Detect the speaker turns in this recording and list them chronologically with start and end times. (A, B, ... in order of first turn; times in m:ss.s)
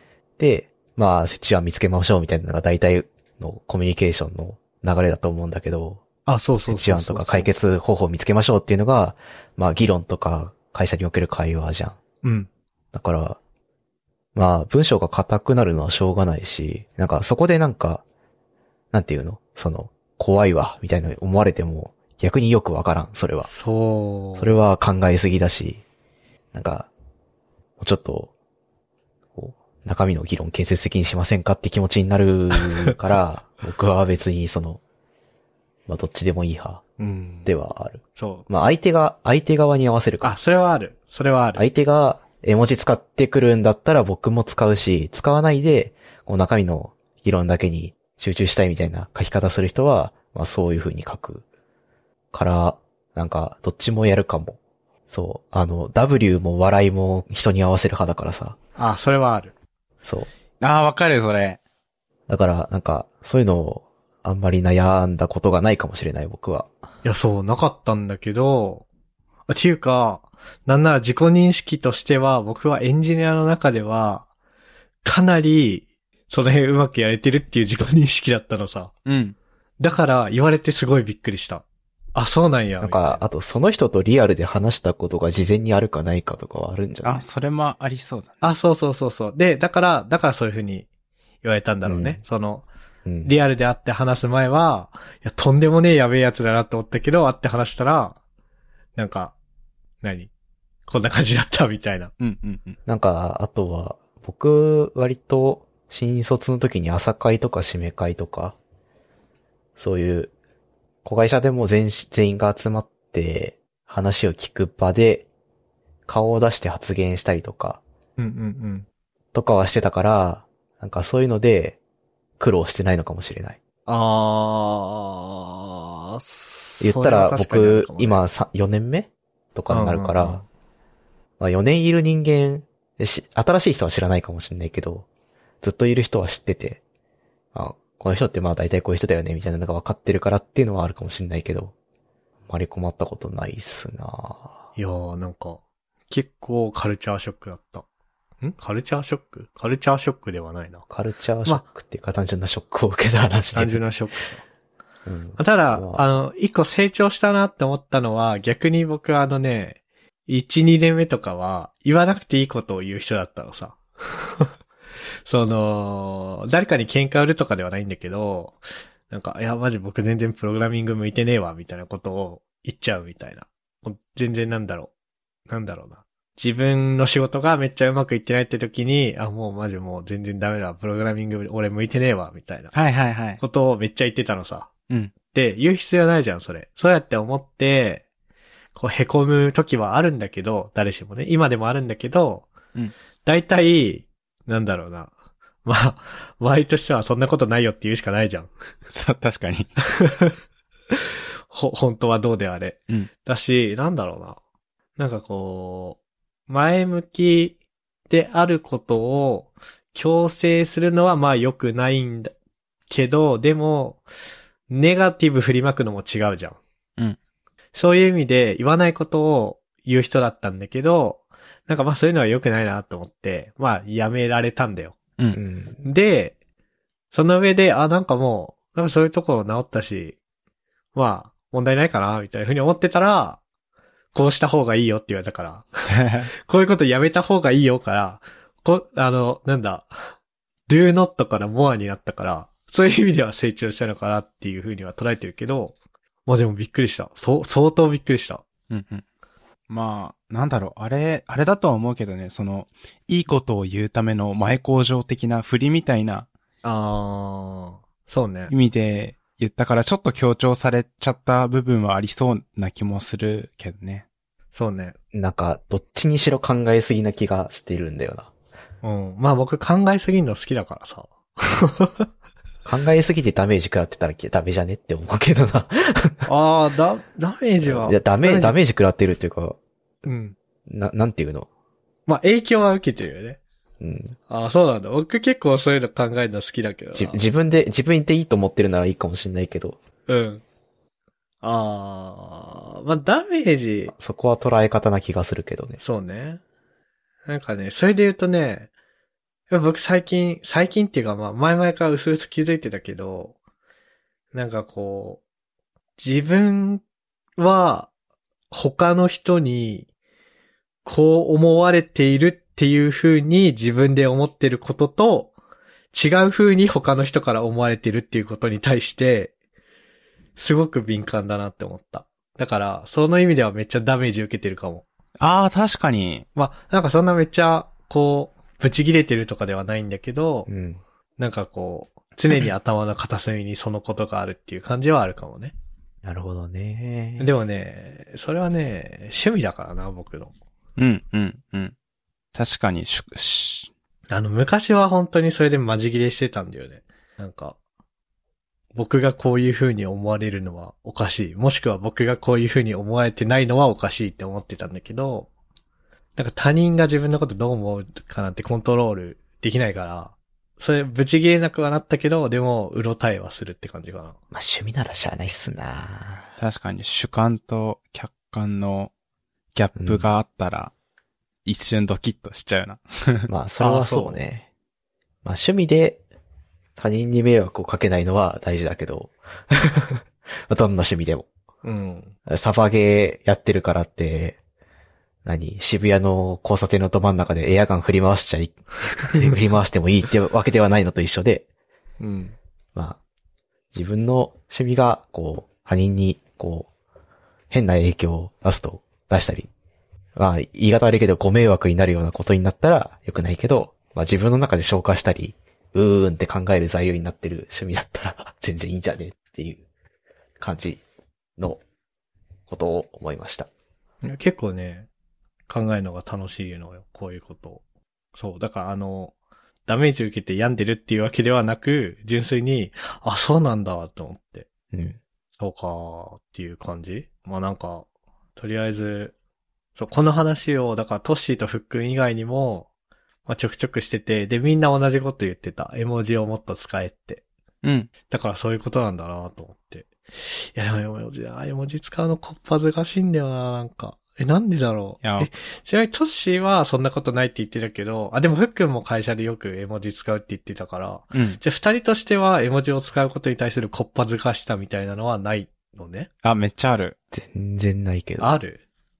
0:00.4-0:06.0 A
0:06.3-0:07.5 B
0:06.7-0:12.0 A
0:12.2-0:12.5 B
0:12.9-0:13.4 A
0:14.4-0:18.0 A
0:18.9-0:23.5 A
0:23.4-0:24.6 B
0:24.4-0:25.8 A
0:26.5-0:26.9 A
0:27.8-0:28.3 A
0:29.4-0:34.8 A
0:35.9-0:36.8 A
0:37.0-0:37.5 B
0:37.5-0:40.4 A
0:38.2-0:38.5 B
0:40.2-0:41.6 B
0:41.6-0:51.4 A
0:52.3-0:54.6 A
0:55.1-0:58.6 A
0:58.8-0:59.5 B
1:00.0-1:00.3 A
1:00.6-1:01.6 C
1:02.3-1:06.7 A
1:07.0-1:08.8 B
1:09.5-1:14.3 B
1:15.0-1:18.9 B
1:19.1-1:19.4 C
1:19.8-1:23.3 B
1:22.8-1:27.2 A
1:27.0-1:28.4 C
1:28.4-1:30.9 B
1:31.4-1:32.7 B
1:31.8-1:32.2 A
1:33.0-1:33.3 A
1:33.2-1:38.2 B
1:39.0-1:39.4 B
1:40.0-1:40.3 B
1:40.9-1:42.1 B
1:42.2-1:42.8 C
1:42.9-1:48.6 A
1:49.8-1:50.3 A
1:51.0-1:55.3 A
1:56.1-1:57.8 A
1:58.2-1:58.9 B
1:59.3-2:01.8 A
2:02.4-2:03.6 A
2:03.9-2:08.2 B
2:06.8-2:10.4 A
2:09.7-2:10.5 B
2:11.4-2:15.1 A
2:15.6-2:16.8 A
2:17.5-2:21.7 A
2:22.5-2:24.6 A
2:24.8-2:27.9 B
2:28.4-2:30.8 B
2:30.9-2:33.8 A
2:33.5-2:34.4 B
2:35.1-2:36.1 A
2:35.4-2:44.5 B
2:45.3-2:54.9 B
2:55.5-3:02.7 B
3:02.7-3:03.4 C
3:03.4-3:04.7 B
3:05.3-3:08.0 B
3:08.8-3:12.5 B
3:13.2-3:15.1 B
3:15.6-3:18.5 B
3:18.9-3:19.7 C
3:19.9-3:20.3 B
3:21.5-3:24.4 B
3:25.0-3:27.6 B
3:28.1-3:32.3 B
3:32.9-3:34.0 B
3:34.7-3:36.6 B
3:37.7-3:45.0 B
3:45.3-3:45.8 A
3:45.8-3:46.4 B
3:47.1-3:50.2 B
3:50.9-3:53.4 B
3:54.1-3:55.7 B
3:55.9-3:56.3 C
3:56.4-4:00.1 B
4:00.7-4:05.8 B
4:06.3-4:08.4 B
4:08.7-4:09.0 C
4:09.7-4:16.3 C
4:16.6-4:18.5 B
4:18.5-4:24.0 C
4:24.5-4:25.0 B
4:25.1-4:28.3 A
4:28.8-4:32.1 B
4:32.6-4:36.3 A
4:36.3-4:38.6 B
4:37.6-4:39.6 A
4:40.0-4:40.4 B
4:40.7-4:41.5 A
4:42.1-4:43.4 B
4:43.8-4:44.2 A
4:44.3-4:47.2 B
4:46.9-4:49.8 A
4:50.1-4:50.4 B
4:51.4-4:53.9 B
4:53.9-4:55.8 A
4:55.8-4:56.4 B
4:57.3-4:58.7 B
4:59.5-5:03.4 B
5:04.3-5:05.2 B
5:06.0-5:06.8 B
5:07.4-5:07.9 B
5:08.5-5:09.9 B
5:10.8-5:15.3 B
5:15.9-5:19.3 B
5:20.4-5:24.8 B
5:25.2-5:26.2 C
5:26.4-5:30.5 B
5:30.5-5:30.8 A
5:31.2-5:35.5 B
5:36.0-5:37.3 A
5:37.2-5:40.3 B
5:40.8-5:41.7 C
5:42.3-5:43.7 C
5:44.1-5:47.6 B
5:48.7-5:55.3 B
5:56.2-6:04.2 B
6:04.3-6:06.3 A
6:06.4-6:08.9 C
6:09.5-6:10.7 C
6:09.8-6:10.1 A
6:11.4-6:13.3 C
6:13.3-6:14.5 A
6:13.6-6:14.2 B
6:15.2-6:16.0 A
6:16.8-6:21.3 A
6:21.6-6:22.1 B
6:22.3-6:24.4 A
6:25.2-6:31.5 A
6:32.0-6:32.4 B
6:33.7-6:36.7 A
6:37.5-6:39.5 A
6:40.2-6:49.6 A
6:50.4-6:50.8 A
6:52.5-6:53.5 A
6:54.0-6:54.9 B
6:55.5-6:57.6 B
6:58.2-6:59.1 B
6:59.7-7:04.5 B
7:04.7-7:05.0 A
7:05.4-7:09.1 B
7:09.8-7:12.7 B
7:13.3-7:17.2 B
7:17.6-7:17.9 C
7:18.1-7:19.9 B
7:20.6-7:36.1 B
7:25.0-7:25.3 C
7:31.1-7:31.4 C
7:36.2-7:37.0 C
7:37.1-7:38.4 A
7:38.2-7:38.6 B